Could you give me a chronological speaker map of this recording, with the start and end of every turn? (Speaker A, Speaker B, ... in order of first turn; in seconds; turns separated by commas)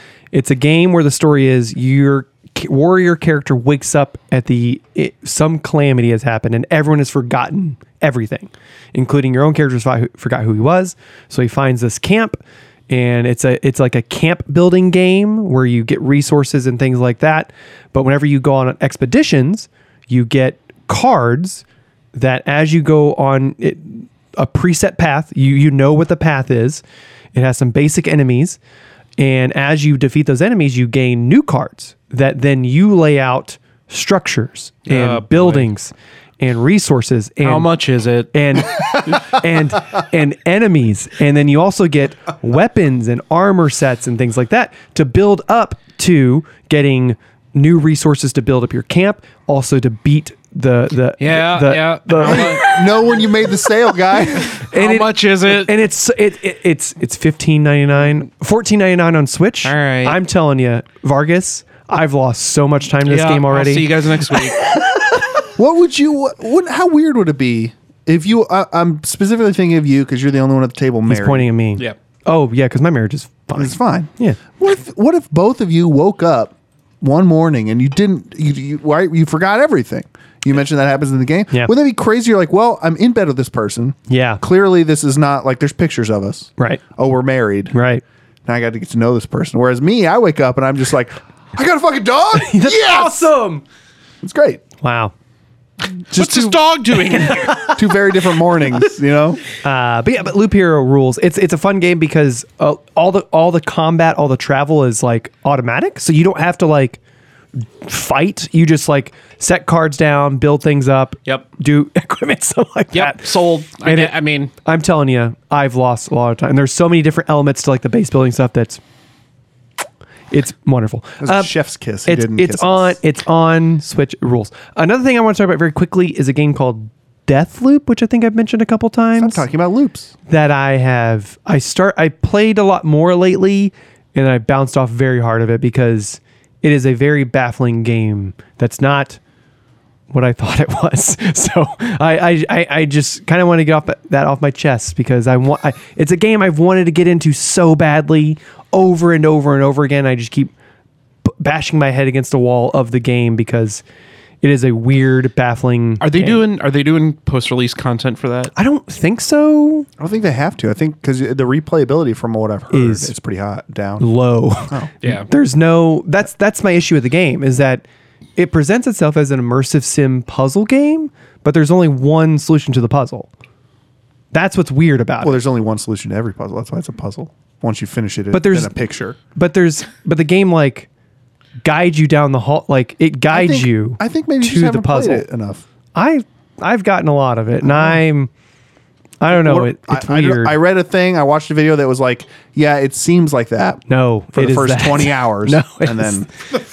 Speaker A: 0.3-12.4, Speaker A: 12.9-26.8, Speaker A: 27.3-28.6, Speaker A: 29.2-37.7, Speaker B: 34.9-35.7, Speaker B: 37.4-38.6, Speaker A: 38.3-52.9, Speaker B: 51.2-52.8, Speaker C: 52.2-54.5, Speaker A: 54.3-65.1, Speaker B: 54.5-55.7, Speaker B: 59.6-60.2, Speaker B: 63.0-64.6, Speaker C: 65.5-71.5, Speaker A: 71.1-74.4, Speaker C: 73.5-87.8, Speaker A: 84.1-84.4, Speaker A: 87.7-88.0, Speaker C: 88.5-93.3, Speaker A: 92.3-93.6, Speaker C: 94.2-94.6, Speaker A: 94.8-95.1, Speaker C: 96.1-96.6, Speaker B: 96.1-97.7, Speaker A: 97.1-97.8, Speaker C: 97.6-99.4, Speaker A: 99.6-107.0, Speaker A: 107.6-118.8, Speaker B: 112.9-114.5, Speaker A: 120.3-121.5, Speaker C: 121.2-123.0, Speaker A: 122.0-129.4, Speaker C: 129.2-130.1, Speaker A: 130.3-139.2, Speaker A: 140.1-150.5, Speaker A: 151.2-153.8, Speaker A: 154.4-156.4, Speaker B: 156.0-158.5, Speaker A: 158.6-159.9, Speaker C: 160.0-164.1, Speaker A: 162.7-163.1, Speaker A: 164.0-167.8, Speaker B: 165.0-165.3, Speaker A: 168.4-173.3, Speaker A: 174.3-175.4, Speaker C: 175.2-179.2, Speaker A: 178.3-180.9, Speaker A: 181.6-185.2, Speaker C: 183.3-185.6, Speaker A: 185.9-188.3, Speaker C: 187.6-188.0, Speaker A: 189.2-190.6, Speaker C: 189.3-196.4, Speaker A: 193.9-196.2